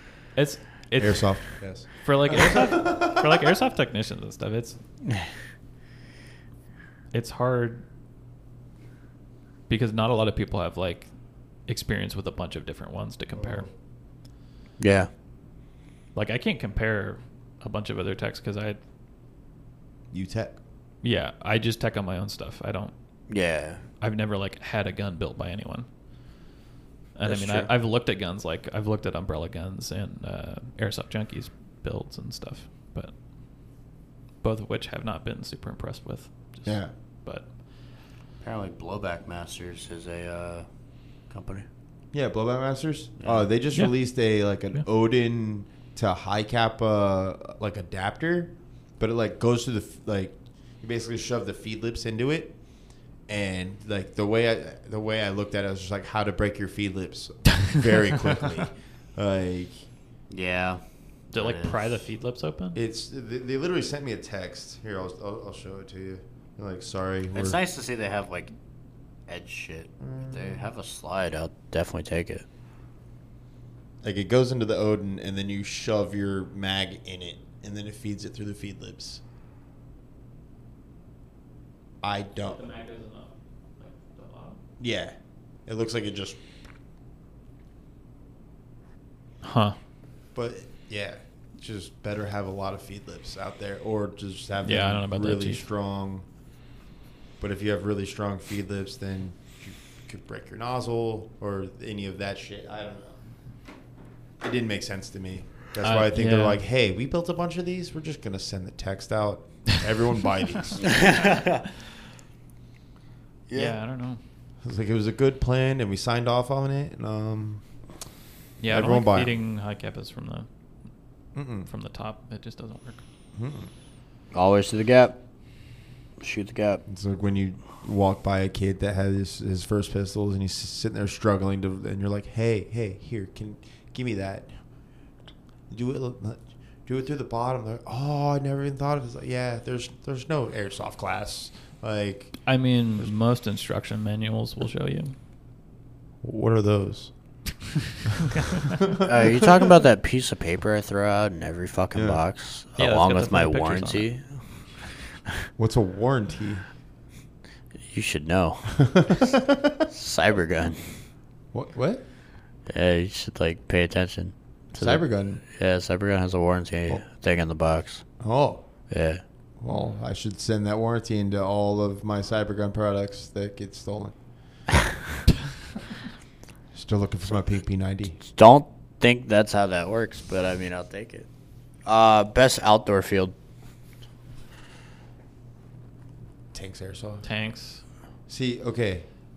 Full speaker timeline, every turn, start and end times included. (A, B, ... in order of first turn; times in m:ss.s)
0:00.4-0:01.4 A
0:01.0-0:03.1 B
0:02.0-0:04.8 A
0:07.1-0:07.8 A
0:09.7-0:11.1 A
0:11.7-0:13.7 A
0:13.4-0:13.7 B
0:14.8-0:15.1 C
0:16.2-0:18.8 A
0:20.1-0:20.6 B
0:21.0-0:22.9 A
0:23.3-0:23.8 C
0:24.0-0:25.9 A
0:27.2-0:33.1 A
0:27.3-0:27.7 C
0:34.4-0:37.5 A
0:36.7-0:36.9 B
0:38.4-0:40.7 C
0:41.3-0:41.7 C
0:42.1-0:52.6 B
0:53.3-0:59.8 B
1:00.3-1:00.8 C
1:01.3-1:02.8 A
1:01.3-1:02.0 C
1:02.8-1:07.6 B
1:07.4-1:08.5 C
1:09.3-1:12.4 C
1:10.0-1:10.6 B
1:14.0-1:19.2 B
1:22.0-1:22.6 B
1:22.4-1:24.6 A
1:24.8-1:25.2 B
1:25.7-1:26.4 B
1:29.4-1:29.8 A
1:30.4-1:36.2 B
1:34.6-1:35.6 A
1:37.4-1:43.2 B
1:44.4-1:51.0 B
1:45.8-1:46.6 A
1:50.9-1:51.6 C
1:53.5-1:53.8 C
1:53.5-1:54.2 A
1:54.6-1:57.6 B
1:58.6-2:00.5 A
1:58.7-1:59.4 B
2:01.4-2:01.7 B
2:01.7-2:03.0 A
2:03.4-2:03.7 B
2:04.3-2:05.2 C
2:06.2-2:06.8 C
2:06.9-2:14.5 B
2:15.7-2:22.4 B
2:22.5-2:25.2 A
2:26.2-2:27.1 B
2:28.7-2:29.4 B
2:29.0-2:34.2 C
2:31.9-2:32.2 B
2:32.8-2:34.1 A
2:35.6-2:36.6 B
2:37.9-2:39.2 C
2:38.8-2:39.9 B
2:39.9-2:40.8 C
2:41.5-2:42.0 B
2:42.7-2:48.0 C
2:44.7-2:45.4 B
2:48.2-2:48.7 B
2:48.9-2:49.2 C
2:49.6-2:54.2 B
2:56.7-2:58.2 B
2:58.3-3:01.3 C
3:01.8-3:03.3 C
3:06.5-3:07.3 B
3:07.2-3:07.8 A
3:08.3-3:09.1 B